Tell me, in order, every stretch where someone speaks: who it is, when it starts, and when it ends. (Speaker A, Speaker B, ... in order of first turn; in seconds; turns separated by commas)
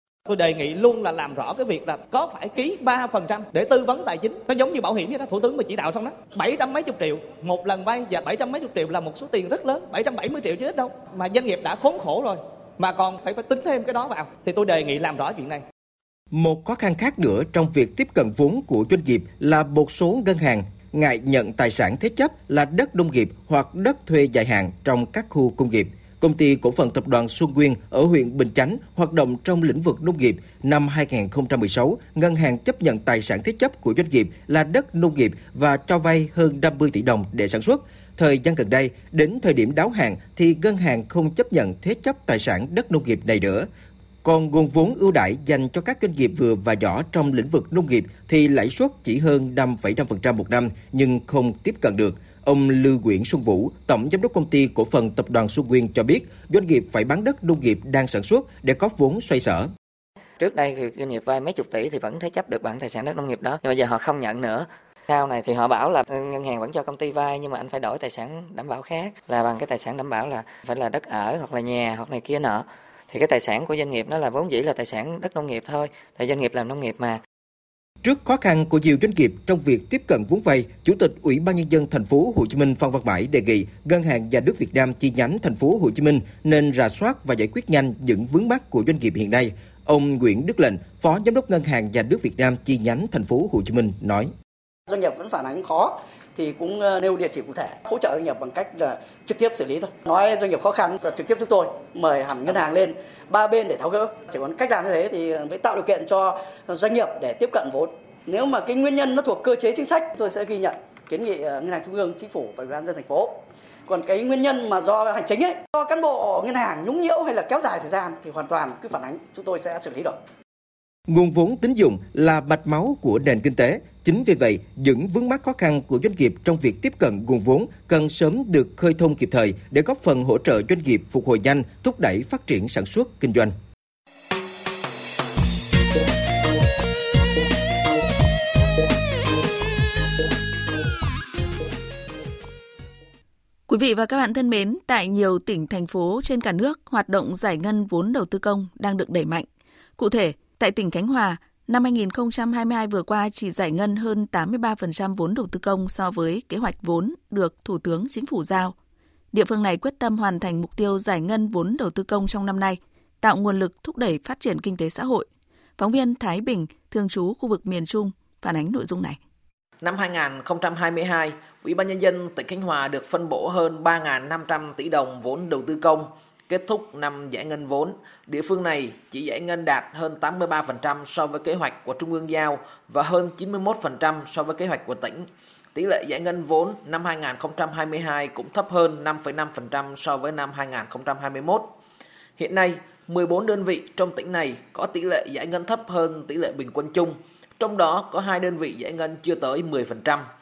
Speaker A: 0.3-15.6, Speaker B: 16.3-43.7, Speaker B: 44.2-59.7, Speaker C: 60.4-77.2, Speaker B: 78.0-94.3, Speaker D: 94.9-113.3, Speaker D: 113.8-120.2, Speaker B: 121.1-133.5, Speaker E: 143.7-149.4, Speaker E: 150.0-158.7, Speaker E: 159.3-165.3, Speaker E: 165.8-169.2, Speaker F: 169.8-191.7, Speaker F: 192.4-200.2